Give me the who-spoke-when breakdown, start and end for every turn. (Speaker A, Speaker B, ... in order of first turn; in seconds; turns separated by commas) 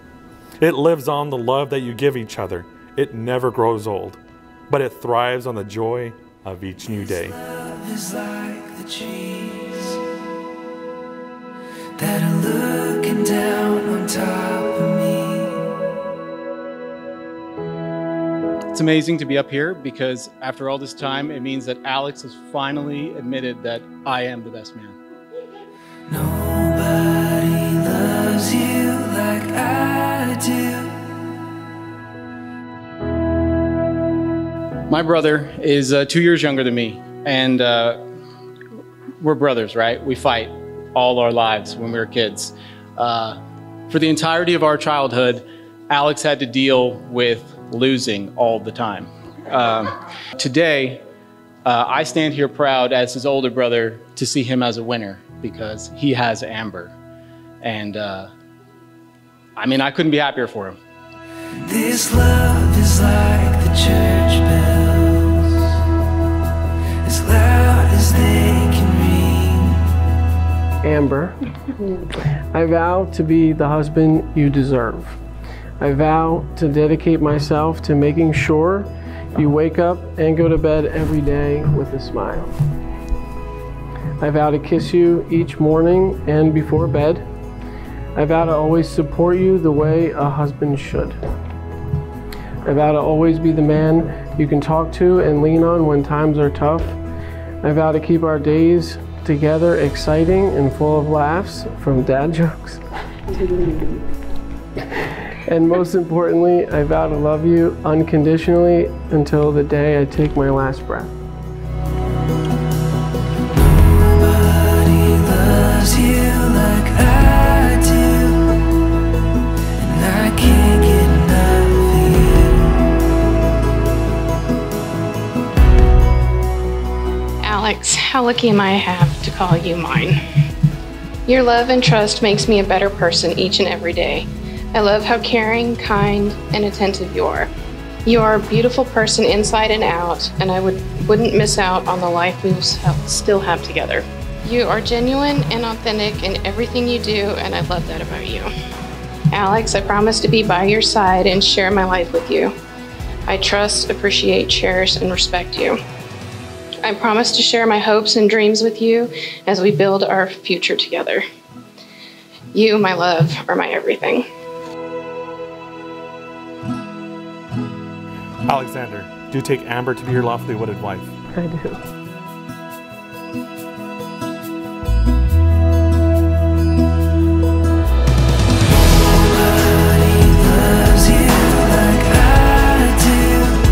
Speaker A: 0.6-4.2, Speaker A: 4.7-7.4, Speaker B: 7.4-10.0, Speaker B: 12.0-15.8, Speaker C: 18.7-25.0, Speaker B: 26.1-31.2, Speaker C: 34.9-38.0, Speaker C: 39.2-51.0, Speaker C: 51.6-57.0, Speaker C: 57.6-58.3, Speaker C: 59.6-60.8, Speaker B: 61.6-65.5, Speaker B: 67.0-69.8, Speaker D: 70.8-71.4, Speaker D: 72.5-75.2, Speaker D: 75.8-82.5, Speaker D: 84.2-87.2, Speaker D: 88.2-91.2, Speaker D: 92.6-97.0, Speaker D: 97.6-102.8, Speaker D: 105.5-111.1, Speaker B: 113.9-118.4, Speaker B: 119.8-122.5, Speaker E: 127.4-130.2, Speaker E: 131.3-137.5, Speaker E: 138.1-148.5, Speaker E: 149.3-152.5, Speaker E: 153.3-155.8, Speaker E: 156.8-161.2, Speaker E: 162.5-164.3, Speaker A: 168.5-171.1, Speaker D: 171.3-171.8, Speaker B: 179.6-183.6